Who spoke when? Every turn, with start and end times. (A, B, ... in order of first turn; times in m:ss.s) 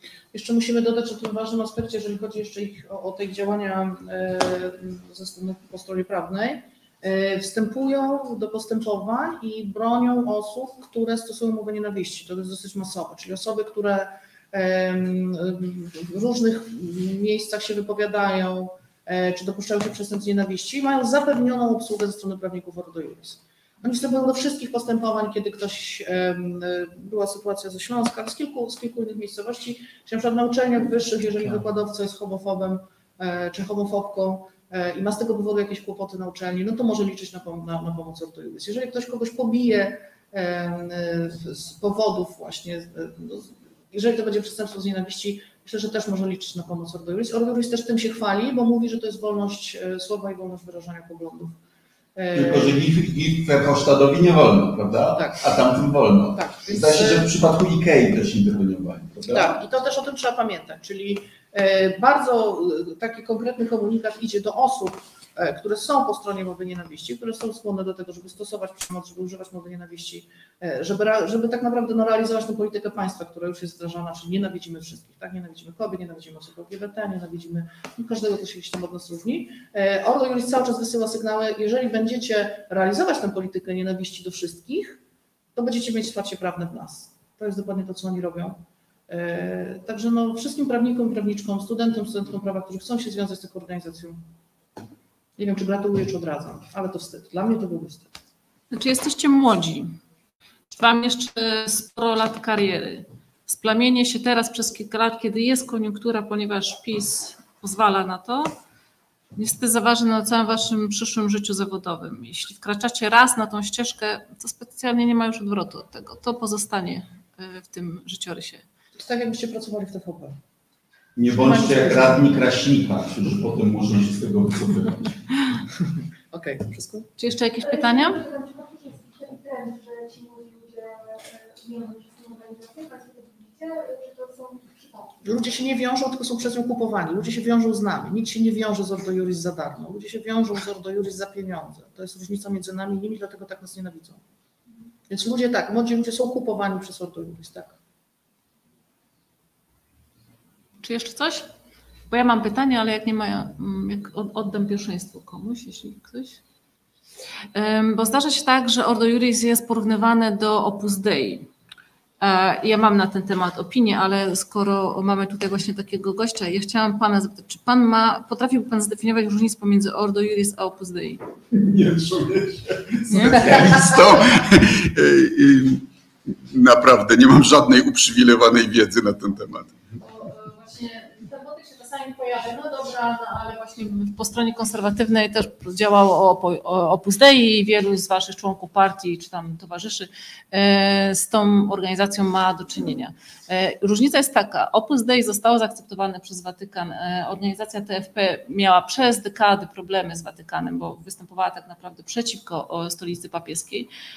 0:00.3-0:51.6 A
0:52.2-0:52.8 A
0:52.3-0:59.6 B
0:55.2-0:55.7 A
0:56.3-0:57.3 A
0:59.3-1:25.0 A
1:25.6-1:34.2 A
1:35.4-1:38.1 A
1:38.7-1:39.9 C
1:40.7-1:48.5 C
1:49.4-1:58.6 C
1:59.0-2:00.4 A
2:01.2-2:05.2 B
2:01.4-2:02.4 A
2:06.3-2:07.1 A
2:07.2-2:08.2 C
2:07.6-2:15.2 D
2:15.2-2:24.2 A
2:25.1-2:27.8 A
2:30.8-2:31.5 C
2:32.1-2:36.4 C
2:37.6-2:41.5 C
2:42.2-2:51.2 C
2:51.5-2:59.8 B
3:00.0-3:23.9 C